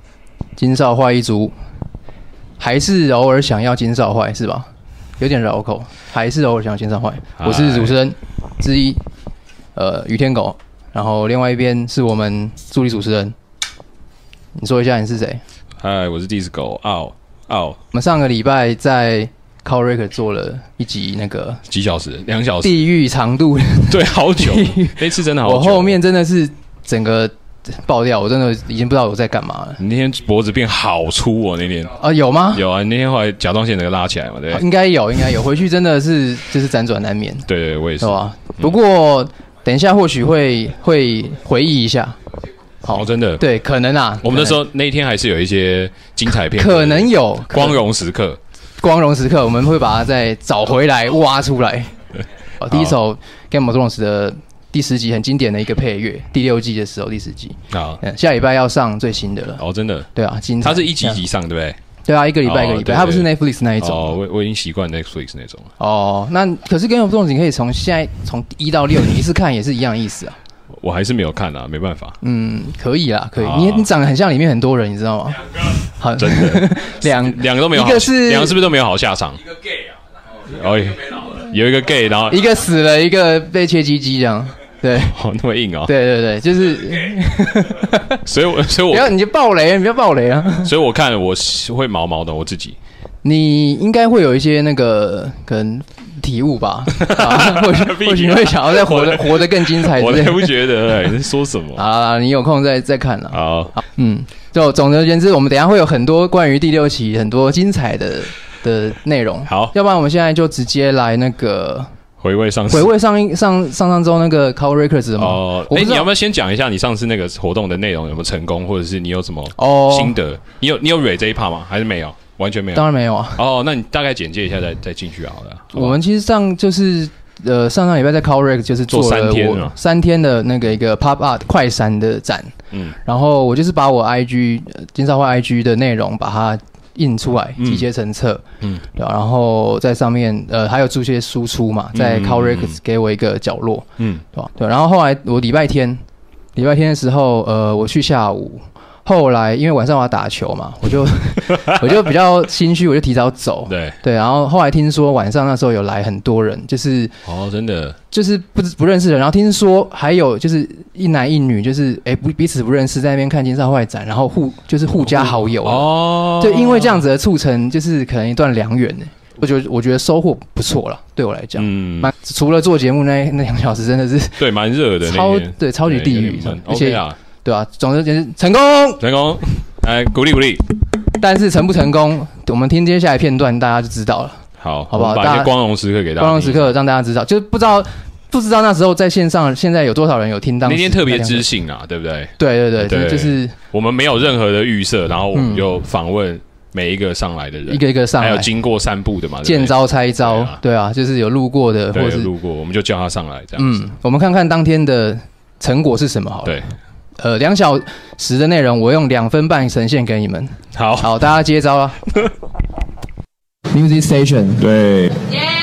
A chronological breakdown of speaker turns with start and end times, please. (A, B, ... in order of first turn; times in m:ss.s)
0:00.6-0:01.5 A
0:02.6-0:04.7 A
0:05.2-0:09.0 A
0:07.4-0:08.0 B
0:09.8-0:13.3 A
0:14.6-0:15.4 A
0:15.8-0:17.8 B
0:17.9-0:21.6 A
0:21.7-0:22.8 B
0:22.6-0:29.8 A
0:23.9-0:26.0 B
0:29.8-0:32.0 B
0:32.0-0:32.6 A
0:32.5-0:34.6 B
0:34.5-0:37.5 A
0:37.5-0:38.8 B
0:38.0-0:42.2 A
0:42.9-0:44.6 A
0:42.9-0:43.4 B
0:44.2-0:48.4 B
0:46.3-0:47.8 A
0:48.8-0:51.9 A
0:52.6-0:59.6 A
0:57.7-0:58.0 B
0:59.6-1:00.1 B
1:00.1-1:01.2 A
1:00.6-1:01.8 B
1:02.1-1:04.1 A
1:02.4-1:05.7 B
1:05.8-1:10.4 A
1:10.8-1:12.2 B
1:12.2-1:15.4 A
1:13.4-1:13.9 B
1:16.0-1:18.6 A
1:16.2-1:19.4 B
1:20.5-1:22.4 B
1:22.3-1:25.1 A
1:25.1-1:25.9 B
1:25.9-1:28.2 A
1:28.2-1:29.1 B
1:28.9-1:30.7 A
1:30.6-1:32.8 B
1:33.2-1:40.5 A
1:37.0-1:41.8 B
1:41.8-1:51.9 A
1:43.3-1:43.7 B
1:49.5-1:49.7 B
1:52.2-1:52.9 B
1:52.7-1:56.0 A
1:55.2-2:06.0 B
1:59.6-2:00.1 A
2:02.7-2:03.4 A
2:05.7-2:12.5 A
2:08.9-2:09.8 B
2:12.7-2:13.0 B
2:13.0-2:18.4 A
2:17.6-2:17.9 B
2:19.0-2:26.0 A
2:21.9-2:22.8 B
2:26.6-2:37.1 A
2:33.7-2:34.0 B
2:37.2-2:38.0 B
2:38.1-2:54.4 A
2:45.0-2:47.0 B
2:51.6-2:52.1 B
2:54.4-2:57.2 B
2:55.0-2:59.0 A
2:59.0-3:00.6 B
3:01.2-3:05.5 A
3:04.6-3:06.8 B
3:06.2-3:11.4 A
3:10.6-3:20.6 B
3:12.4-3:13.5 A
3:15.3-3:15.6 A
3:17.7-3:18.5 A
3:19.4-3:22.3 A
3:21.9-3:23.8 B
3:23.6-3:26.6 A
3:27.2-3:32.1 A
3:30.8-3:31.1 B
3:33.7-3:34.6 A
3:34.6-3:35.2 B